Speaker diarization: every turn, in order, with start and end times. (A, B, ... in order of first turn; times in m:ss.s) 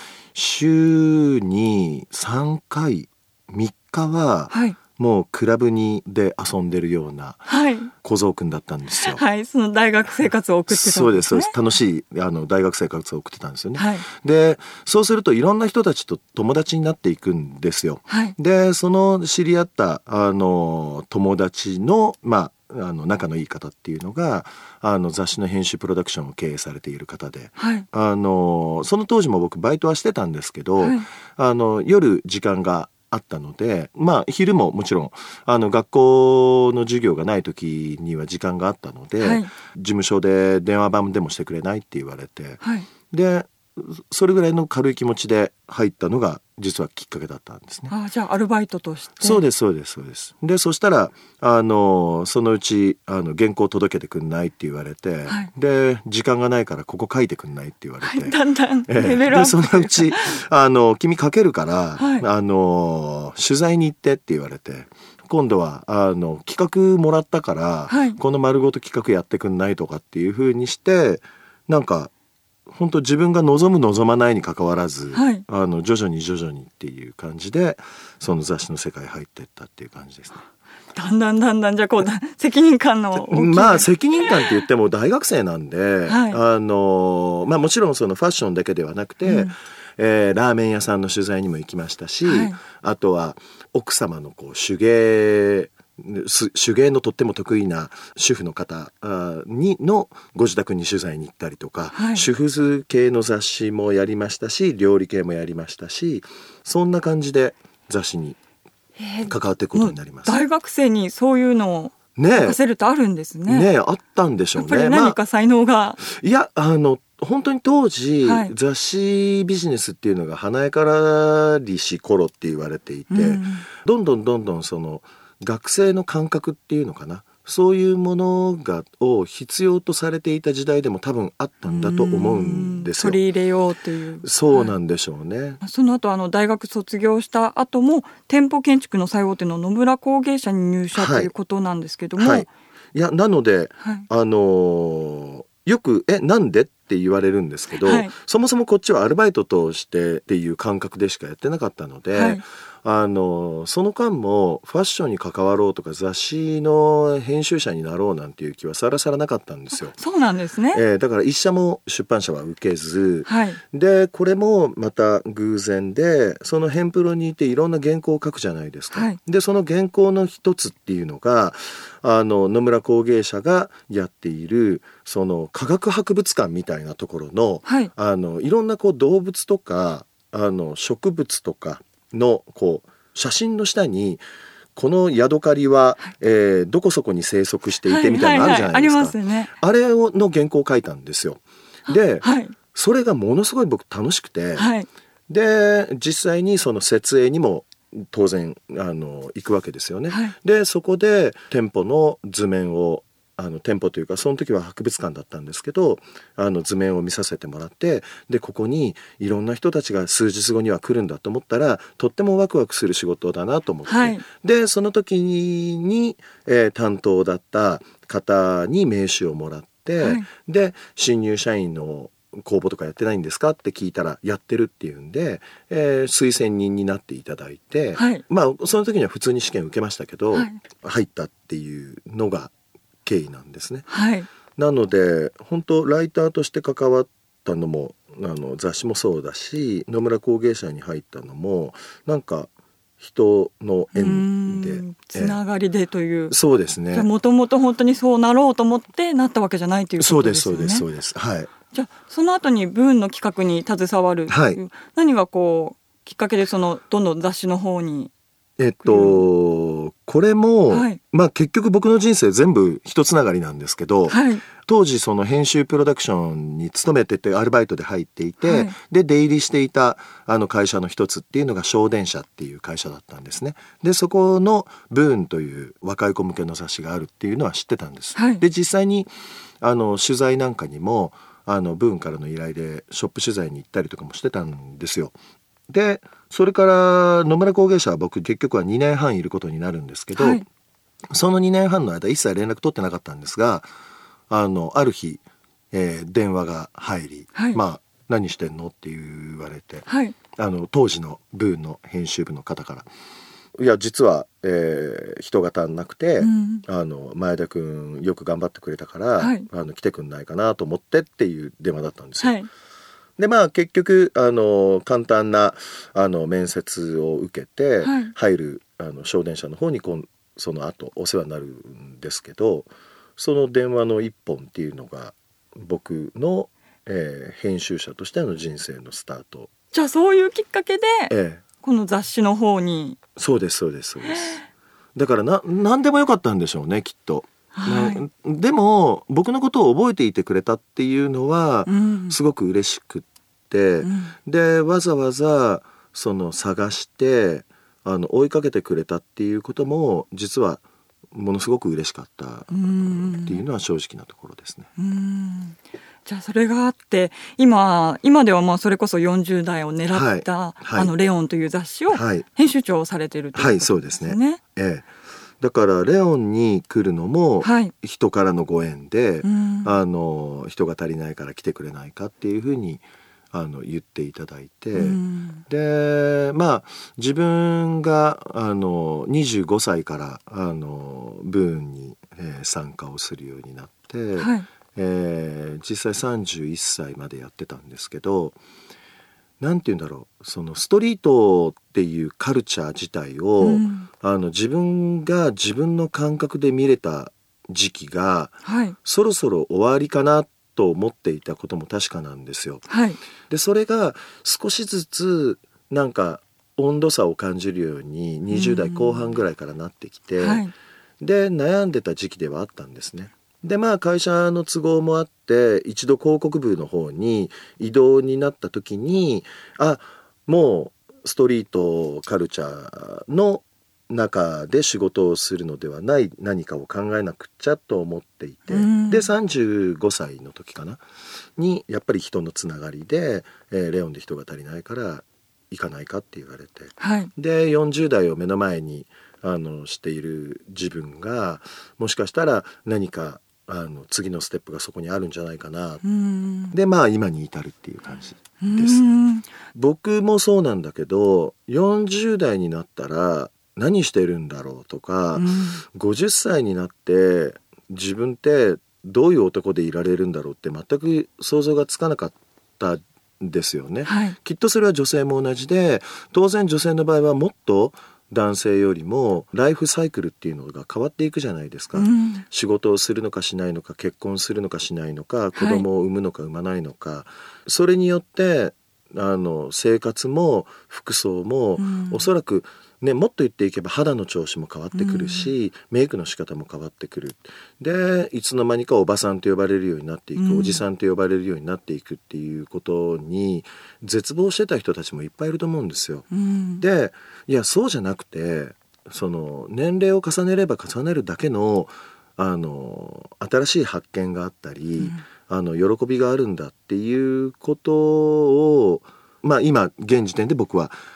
0:00.3-0:09.2 A
0:04.5-0:04.8 B
0:07.5-0:07.9 B
0:09.1-0:11.5 B
0:10.7-0:47.9 A
0:13.8-0:14.1 B
0:18.1-0:18.4 B
0:27.6-0:27.9 B
0:30.8-0:31.0 B
0:39.2-0:39.5 B
0:42.6-0:42.9 B
0:47.9-0:49.4 B
0:49.2-0:58.4 A
0:58.0-1:00.4 B
0:58.9-1:12.1 A
1:02.0-1:02.2 B
1:07.9-1:08.2 B
1:12.7-1:20.5 A
1:15.1-1:15.4 B
1:21.0-1:24.5 B
1:23.2-1:48.4 A
1:26.1-1:26.4 B
1:29.3-1:29.5 B
1:32.3-1:32.6 B
1:41.9-1:42.2 B
1:49.0-1:53.7 B
1:49.2-1:50.4 A
1:52.2-1:52.6 A
1:53.5-1:55.2 A
1:54.6-1:56.0 B
1:56.0-2:13.2 A
1:58.2-1:58.5 B
2:03.1-2:03.7 B
2:11.7-2:14.7 B
2:14.2-2:15.6 A
2:15.6-2:22.5 B
2:21.0-2:21.3 A
2:22.2-2:40.0 A
2:27.8-2:28.1 B
2:32.1-2:32.4 B
2:39.9-2:40.8 B
2:40.7-3:04.2 A
2:43.3-2:43.6 B
2:48.9-2:49.2 B
3:04.8-3:14.7 A
3:07.9-3:09.5 B
3:11.9-3:12.6 B
3:14.6-3:14.9 B
3:15.3-3:52.5 A
3:20.1-3:20.4 B
3:33.9-3:34.2 B
3:40.0-3:40.3 B
3:48.0-3:48.2 B
3:50.3-3:50.6 B
3:53.0-3:53.9 A
3:53.9-3:54.3 B
3:54.6-4:05.4 A
4:03.9-4:06.4 B
4:06.3-4:07.1 A
4:06.9-4:10.8 B
4:10.0-4:11.5 A
4:11.7-4:18.1 B
4:14.3-4:14.6 A
4:18.6-4:39.1 A
4:18.8-4:19.3 B
4:20.7-4:21.0 B
4:24.1-4:24.4 B
4:28.4-4:28.7 B
4:38.2-4:38.4 B
4:39.6-4:45.1 A
4:45.7-4:50.4 A
4:50.2-4:50.4 B
4:51.1-4:53.7 A
4:54.3-5:02.9 A
4:57.4-4:57.6 B
4:59.9-5:00.2 B
5:03.6-5:12.4 A
5:06.2-5:06.6 B
5:09.2-5:09.5 B
5:12.2-5:12.5 B
5:13.2-5:29.5 A
5:17.8-5:18.1 B
5:29.7-5:33.0 B
5:31.1-5:31.4 A
5:33.2-5:34.4 A
5:34.1-5:34.4 B
5:35.0-5:54.7 A
5:37.6-5:38.0 B
5:41.7-5:42.2 B
5:43.8-5:44.1 B
5:52.5-5:53.4 B
5:54.8-6:04.4 B
5:59.9-6:00.9 A
6:01.9-6:02.3 A
6:03.4-6:04.9 A
6:05.4-6:28.4 A
6:07.4-6:07.7 B
6:09.2-6:09.8 B
6:14.8-6:15.4 B
6:24.2-6:24.5 B
6:29.4-6:42.6 A
6:33.4-6:33.9 B
6:38.4-6:38.8 B
6:42.7-6:43.0 B
6:43.3-6:50.5 A
6:48.3-6:49.0 B
6:50.2-6:50.5 B
6:51.0-7:10.8 A
7:08.5-7:09.1 B
7:11.4-7:25.8 A
7:16.8-7:17.1 B
7:25.8-7:26.6 B
7:26.5-7:28.8 A
7:28.4-7:29.3 B
7:29.5-8:16.1 A
7:35.2-7:35.6 B
7:43.8-7:44.2 B
7:51.8-7:52.2 B
7:55.4-7:55.6 B
8:01.6-8:02.0 B
8:04.7-8:05.3 B
8:10.2-8:10.6 B
8:16.1-8:16.6 B
8:16.6-8:30.8 A